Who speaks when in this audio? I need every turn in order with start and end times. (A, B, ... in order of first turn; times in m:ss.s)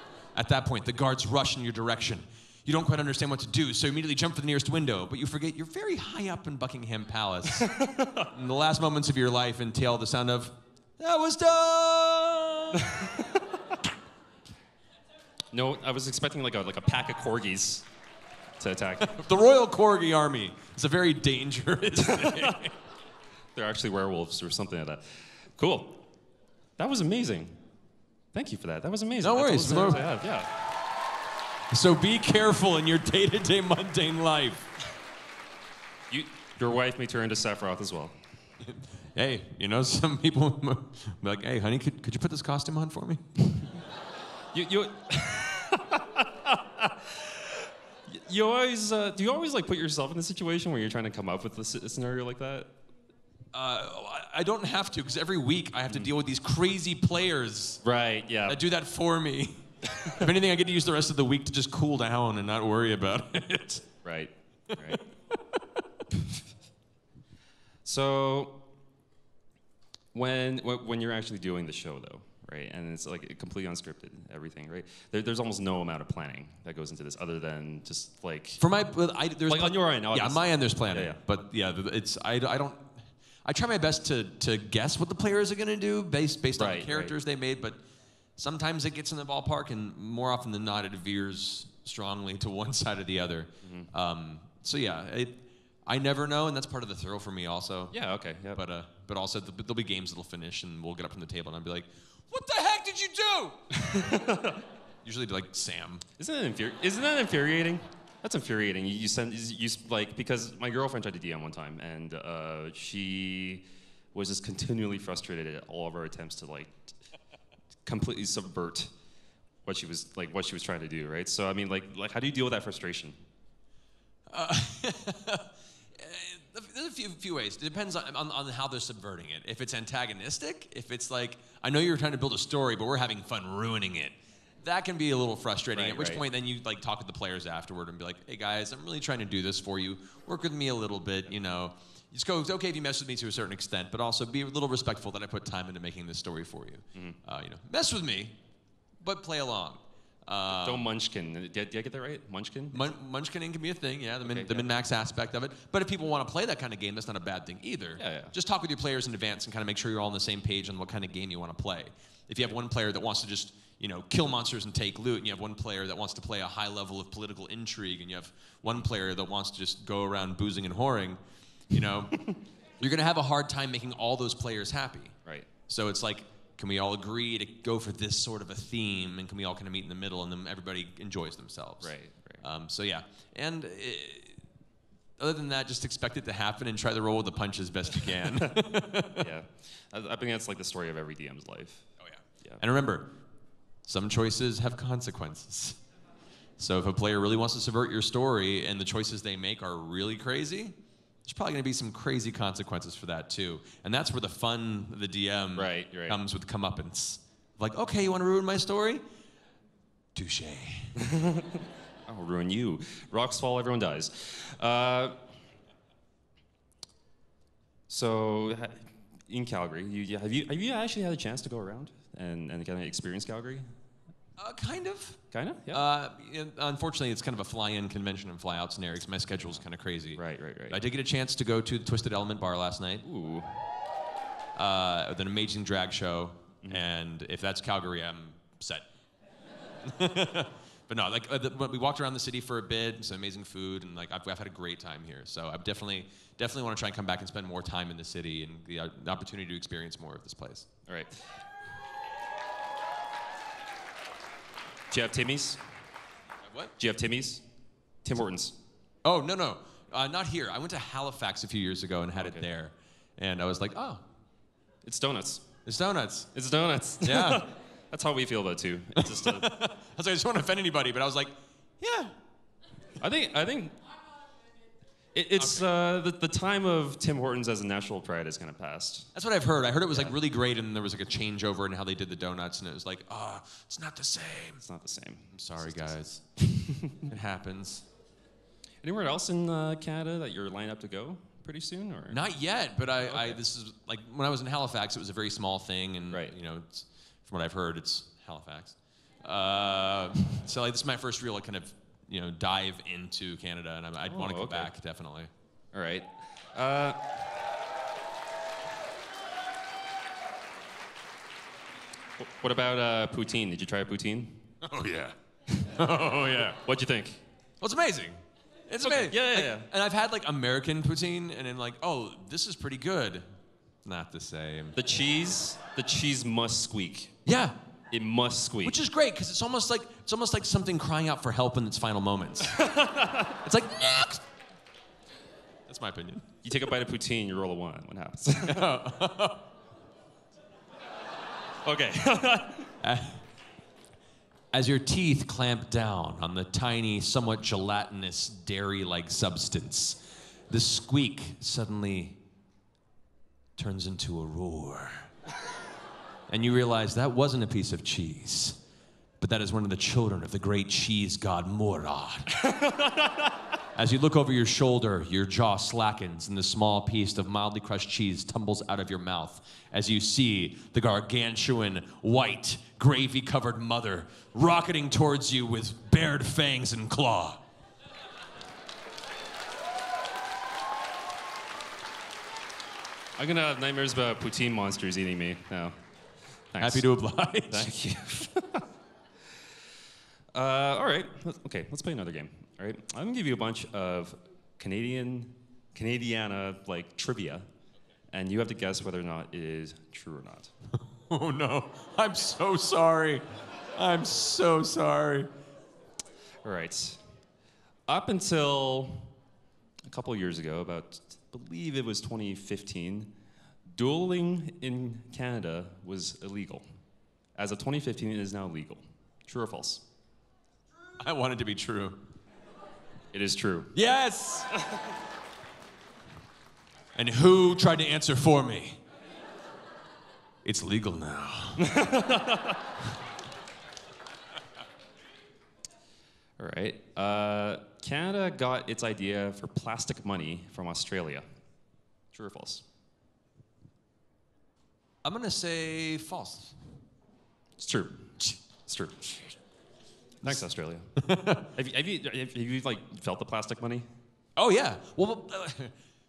0:00.3-0:13.1 A
0:07.5-0:08.3 B
0:12.8-0:13.4 B
0:15.5-0:17.9 B
0:18.6-0:19.1 B
0:19.0-0:22.7 A
0:22.0-0:22.6 B
0:23.5-0:26.1 B
0:26.8-0:27.6 B
0:28.3-0:30.5 B
0:29.2-0:30.1 A
0:31.7-0:34.7 A
0:36.1-0:38.2 B
0:38.6-0:43.3 A
0:44.5-0:52.7 B
0:53.5-0:57.8 A
0:57.8-0:58.6 B
0:58.5-1:03.9 A
1:04.0-1:05.0 B
1:05.6-1:05.8 A
1:07.8-1:08.6 B
1:10.1-1:18.6 B
1:18.6-1:22.9 A
1:19.5-1:21.2 B
1:23.4-1:27.8 A
1:26.6-1:27.2 B
1:28.4-1:37.9 A
1:33.6-1:33.9 B
1:37.9-1:38.6 B
1:38.5-1:43.6 A
1:43.7-1:44.6 B
1:45.0-1:46.0 A
1:46.2-1:57.0 B
1:57.8-1:58.9 B
1:59.6-2:03.2 B
2:04.3-2:28.4 A
2:15.7-2:16.2 B
2:29.0-2:30.8 A
2:30.6-2:32.9 B
2:32.7-2:55.2 A
2:34.2-2:34.7 B
2:38.0-2:38.3 B
2:55.7-3:04.4 A
3:01.8-3:02.4 B
3:05.2-3:09.3 A
3:09.2-3:11.9 B
3:12.0-3:13.2 A
3:13.8-3:15.8 A
3:16.6-3:29.0 A
3:25.6-3:26.2 B
3:30.1-3:31.0 A
3:31.0-3:35.2 B
3:37.9-3:43.7 B
3:44.4-3:53.0 A
3:45.3-3:45.8 B
3:50.1-3:50.8 B
3:53.0-3:53.7 B
3:54.5-3:58.9 A
3:59.8-4:10.7 A
4:10.9-4:11.3 B
4:14.9-4:15.6 B
4:16.4-4:16.7 A
4:16.8-4:17.4 B
4:18.0-4:18.5 B
4:19.0-4:24.0 A
4:22.2-4:22.4 B
4:24.8-4:25.4 B
4:25.6-4:26.3 A
4:26.3-4:29.5 B
4:27.0-4:27.4 A
4:29.0-4:32.1 A
4:33.0-4:33.8 B
4:35.1-4:39.1 B
4:35.4-4:35.6 A
4:39.1-4:44.6 A
4:39.9-4:40.2 B
4:44.6-4:47.0 B
4:45.3-4:47.9 A
4:48.8-4:52.2 B
4:52.1-5:05.3 A
4:53.0-4:53.4 B
5:04.0-5:04.7 B
5:05.7-5:07.2 B
5:12.2-5:14.5 B
5:14.6-5:15.1 A
5:15.7-5:16.6 A
5:16.6-5:17.2 B
5:17.6-5:23.2 A
5:18.8-5:19.7 B
5:23.8-5:24.8 A
5:24.7-5:27.1 B
5:27.2-5:27.5 A
5:27.9-5:28.8 B
5:28.6-5:32.6 A
5:32.4-5:33.4 B
5:33.4-5:34.2 A
5:35.7-5:36.3 A
5:36.4-5:38.7 B
5:38.4-5:39.5 A
5:41.6-5:42.7 B
5:42.8-5:43.2 A
5:44.5-5:52.2 A
5:53.6-5:55.1 A
5:56.3-5:58.6 A
5:59.2-6:02.4 A
6:02.3-6:03.3 B
6:03.7-6:17.4 A
6:23.2-6:25.8 B
6:26.5-6:26.9 B
6:26.6-6:27.7 A
6:27.5-6:28.6 B
6:30.3-6:37.4 B
6:38.1-6:40.5 B
6:40.8-6:45.3 A
6:46.4-6:47.0 B
6:47.9-6:49.1 B
6:49.9-6:53.1 B
6:53.7-6:56.6 B
6:57.4-6:59.8 B
7:01.0-7:02.0 A
7:03.1-7:03.7 B
7:03.7-7:04.5 A
7:06.9-7:08.8 A
7:10.4-7:11.8 A
7:11.6-7:12.7 B
7:16.4-7:21.2 B
7:22.1-7:22.6 B
7:25.0-7:26.7 A
7:27.6-7:29.3 B
7:30.2-7:30.9 B
7:31.0-7:31.5 A
7:31.5-7:33.9 B
7:34.4-7:35.7 A